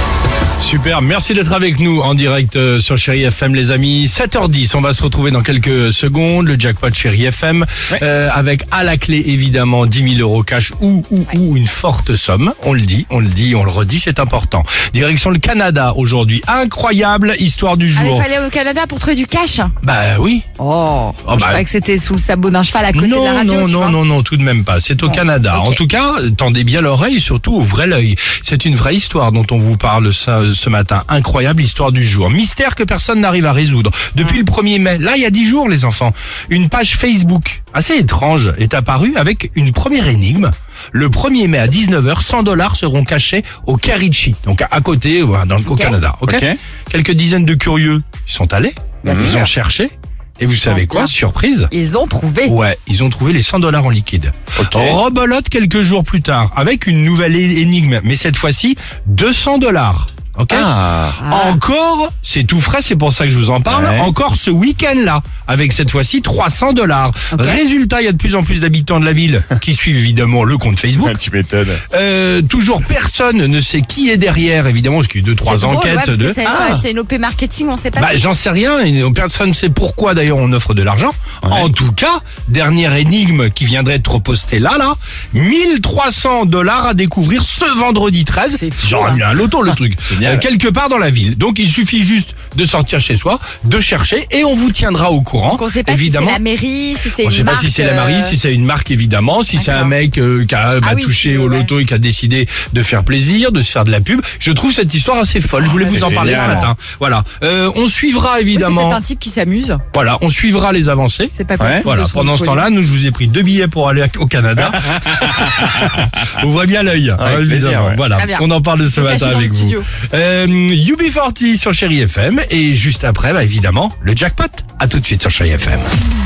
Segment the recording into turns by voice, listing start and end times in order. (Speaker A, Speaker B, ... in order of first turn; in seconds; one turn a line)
Speaker A: 0.6-18.3
Speaker B: 17.9-19.7
Speaker A: 19.8-20.4
Speaker B: 20.6-24.0
Speaker A: 21.2-21.6
Speaker A: 22.9-51.7
Speaker B: 25.0-25.8
Speaker B: 45.7-46.0
Speaker C: 46.3-46.5
Speaker B: 49.0-49.5
Speaker C: 49.1-49.4
Speaker B: 50.6-51.1
Speaker B: 51.7-52.6
Speaker A: 52.5-60.7
Speaker C: 54.6-55.0
Speaker C: 60.5-61.2
Speaker B: 61.2-61.6
Speaker A: 61.3-71.2
Speaker C: 63.7-64.1
Speaker B: 67.3-67.6
Speaker C: 71.0-71.8
Speaker A: 71.9-76.4
Speaker B: 75.4-78.3
Speaker C: 76.5-76.8
Speaker A: 78.0-96.4
Speaker C: 81.4-81.7
Speaker B: 88.5-89.2
Speaker C: 90.1-90.5
Speaker B: 95.5-98.3
Speaker A: 97.2-109.0
Speaker B: 99.5-99.9
Speaker B: 100.8-101.7
Speaker B: 105.6-106.6
Speaker C: 105.9-106.7
Speaker B: 108.5-109.8
Speaker A: 109.9-125.9
Speaker B: 111.3-112.7
Speaker C: 111.6-111.9
Speaker C: 117.2-118.0
Speaker B: 118.2-119.9